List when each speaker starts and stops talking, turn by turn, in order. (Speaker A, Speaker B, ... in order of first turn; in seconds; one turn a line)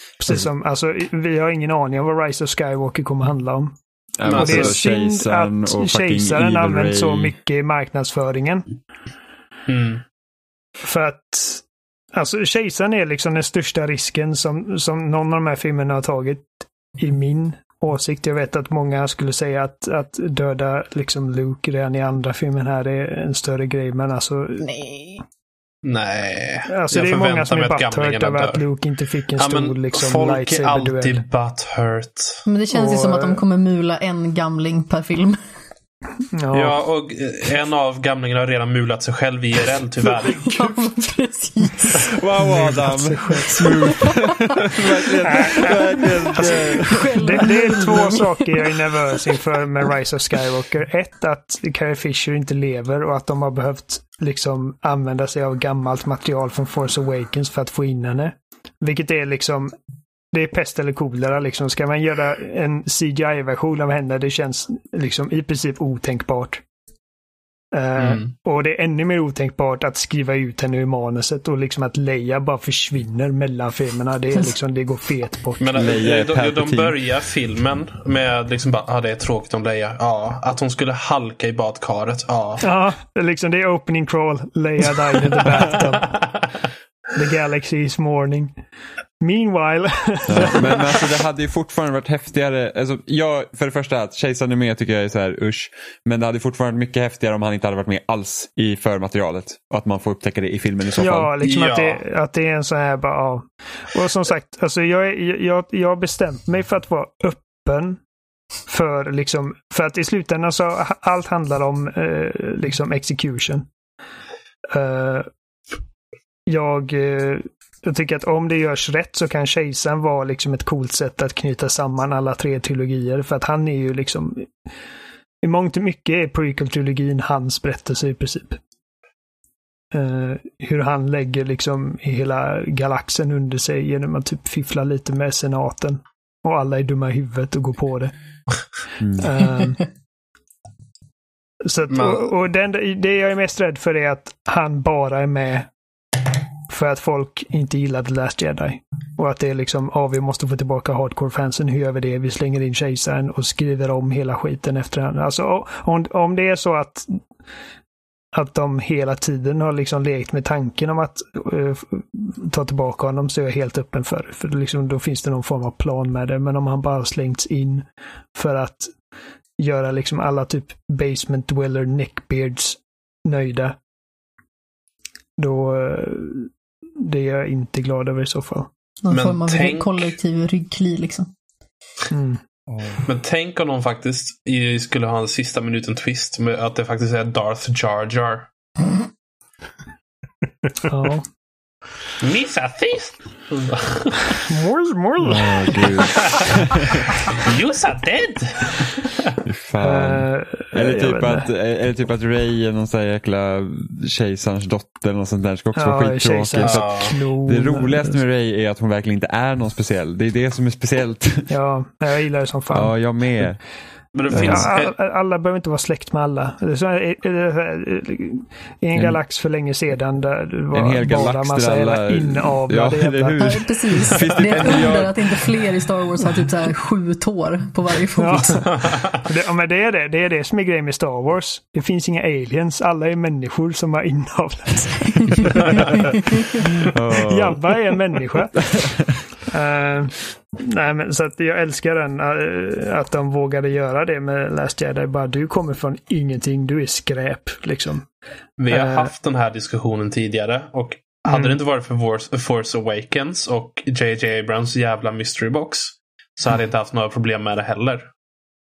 Speaker A: 0.2-8.7
Speaker B: 4.2-7.3
Speaker C: 4.3-4.8
Speaker C: 9.7-10.0
Speaker A: 10.8-24.7
Speaker D: 24.6-25.2
Speaker C: 25.8-28.6
Speaker A: 26.7-31.2
Speaker C: 29.4-32.4
Speaker D: 32.5-35.4
Speaker A: 32.7-33.4
Speaker A: 36.3-36.8
Speaker C: 36.5-40.6
Speaker D: 40.2-42.1
Speaker B: 42.0-47.4
Speaker A: 42.4-44.0
Speaker A: 45.2-59.8
Speaker D: 45.5-48.3
Speaker A: 60.3-66.6
Speaker A: 67.7-75.7
Speaker C: 68.0-68.3
Speaker C: 75.6-82.7
Speaker B: 75.7-77.0
Speaker A: 82.6-86.2
Speaker C: 86.1-86.4
Speaker A: 87.1-88.6
Speaker A: 89.2-90.8
Speaker B: 90.3-101.3
Speaker A: 101.0-108.0
Speaker C: 101.4-102.0
Speaker A: 108.7-113.7
Speaker A: 114.7-115.3
Speaker A: 116.5-124.5
Speaker A: 125.4-128.6
Speaker A: 129.9-138.1
Speaker B: 139.0-139.3
Speaker A: 139.2-139.8
Speaker A: 141.7-145.7
Speaker C: 141.9-142.3
Speaker A: 146.7-157.2
Speaker A: 158.3-168.9
Speaker A: 169.6-173.8
Speaker A: 175.4-178.7
Speaker D: 179.0-181.3
Speaker C: 179.1-180.2
Speaker A: 182.1-182.4
Speaker B: 182.7-183.0
Speaker C: 183.0-188.5
Speaker A: 190.9-191.3
Speaker C: 192.2-194.4
Speaker A: 194.5-196.0
Speaker B: 195.2-197.1
Speaker C: 197.2-199.4
Speaker B: 199.4-211.5
Speaker A: 199.8-201.5
Speaker A: 205.8-208.2
Speaker C: 206.6-207.1
Speaker A: 211.5-213.5
Speaker B: 212.7-213.6
Speaker C: 214.1-214.9
Speaker B: 214.3-214.7
Speaker A: 214.3-223.4
Speaker B: 218.9-219.2
Speaker B: 220.7-225.4
Speaker D: 223.4-228.9
Speaker C: 224.2-225.0
Speaker A: 228.2-238.7
Speaker B: 236.6-237.9
Speaker B: 238.7-239.2
Speaker A: 239.5-248.1
Speaker C: 248.6-258.1
Speaker A: 248.7-249.1
Speaker A: 251.3-251.6